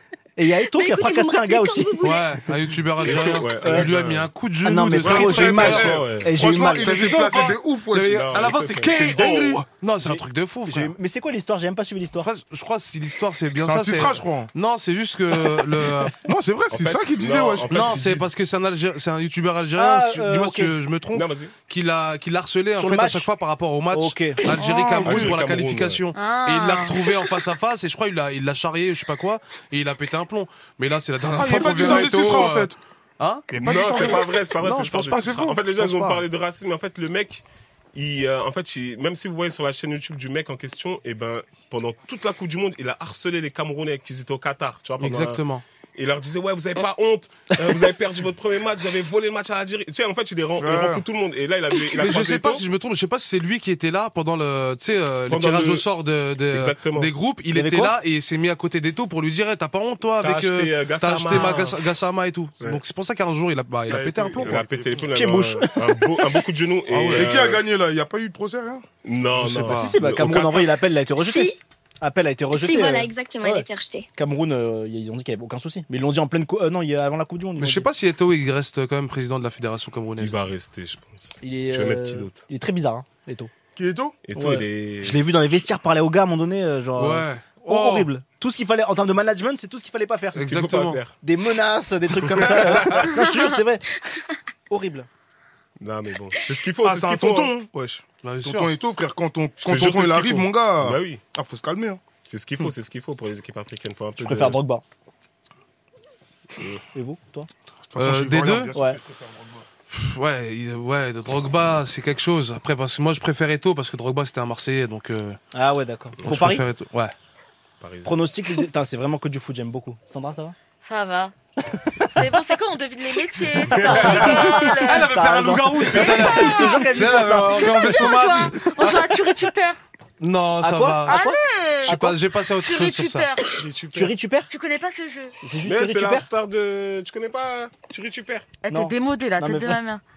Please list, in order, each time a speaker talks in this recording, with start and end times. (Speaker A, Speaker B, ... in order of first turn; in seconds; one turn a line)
Speaker A: 0.3-1.9
Speaker B: 0.7-2.4
Speaker C: 2.0-6.0
Speaker D: 3.0-4.3
Speaker A: 3.0-3.9
Speaker A: 4.6-7.0
Speaker D: 5.0-6.3
Speaker E: 5.1-9.6
Speaker C: 6.8-10.9
Speaker D: 8.1-9.5
Speaker A: 10.7-12.3
Speaker C: 12.2-16.2
Speaker E: 13.6-14.5
Speaker E: 16.2-18.0
Speaker D: 16.7-18.4
Speaker C: 17.7-34.1
Speaker A: 19.8-20.7
Speaker D: 21.1-21.5
Speaker A: 22.7-23.3
Speaker A: 23.9-24.4
Speaker F: 24.5-25.1
Speaker D: 25.0-26.0
Speaker F: 26.1-27.1
Speaker E: 31.3-32.8
Speaker D: 31.6-32.1
Speaker E: 33.5-36.2
Speaker D: 33.6-37.4
Speaker D: 37.9-45.4
Speaker C: 45.0-45.6
Speaker D: 45.9-52.6
Speaker E: 50.6-51.0
Speaker C: 52.0-64.6
Speaker D: 55.3-55.9
Speaker D: 56.5-57.1
Speaker A: 57.5-57.9
Speaker D: 60.2-61.8
Speaker E: 63.9-65.1
Speaker D: 64.4-67.6
Speaker A: 65.1-66.2
Speaker C: 66.9-67.3
Speaker E: 67.1-68.8
Speaker D: 69.0-70.7
Speaker C: 69.3-70.0
Speaker A: 69.7-77.9
Speaker B: 71.2-71.6
Speaker B: 72.5-74.1
Speaker C: 77.6-80.3
Speaker D: 80.2-82.4
Speaker A: 81.4-83.5
Speaker E: 83.8-84.2
Speaker D: 84.2-85.2
Speaker A: 84.3-90.6
Speaker C: 87.0-88.1
Speaker C: 90.3-91.0
Speaker D: 90.4-91.1
Speaker A: 91.2-93.8
Speaker A: 94.7-95.1
Speaker D: 95.8-97.5
Speaker E: 96.8-102.0
Speaker C: 98.2-98.7
Speaker D: 99.6-101.2
Speaker D: 102.2-104.6
Speaker A: 104.2-104.8
Speaker D: 106.6-106.8
Speaker A: 106.9-107.5
Speaker E: 107.9-109.5
Speaker C: 108.0-108.7
Speaker A: 108.7-109.0
Speaker C: 109.9-115.4
Speaker A: 115.5-116.6
Speaker C: 116.2-117.1
Speaker D: 117.8-118.2
Speaker A: 118.0-120.5
Speaker F: 120.8-121.3
Speaker F: 122.1-125.1
Speaker A: 123.7-128.1
Speaker D: 123.8-124.4
Speaker C: 123.8-129.1
Speaker F: 125.9-126.9
Speaker D: 126.0-126.3
Speaker F: 127.4-129.8
Speaker C: 130.2-131.3
Speaker A: 130.6-132.2
Speaker F: 131.1-132.0
Speaker C: 131.8-133.3
Speaker F: 132.5-133.5
Speaker D: 133.5-134.1
Speaker A: 133.9-134.5
Speaker F: 134.5-135.3
Speaker A: 135.4-136.3
Speaker D: 135.6-138.5
Speaker F: 138.6-140.0
Speaker A: 138.7-139.8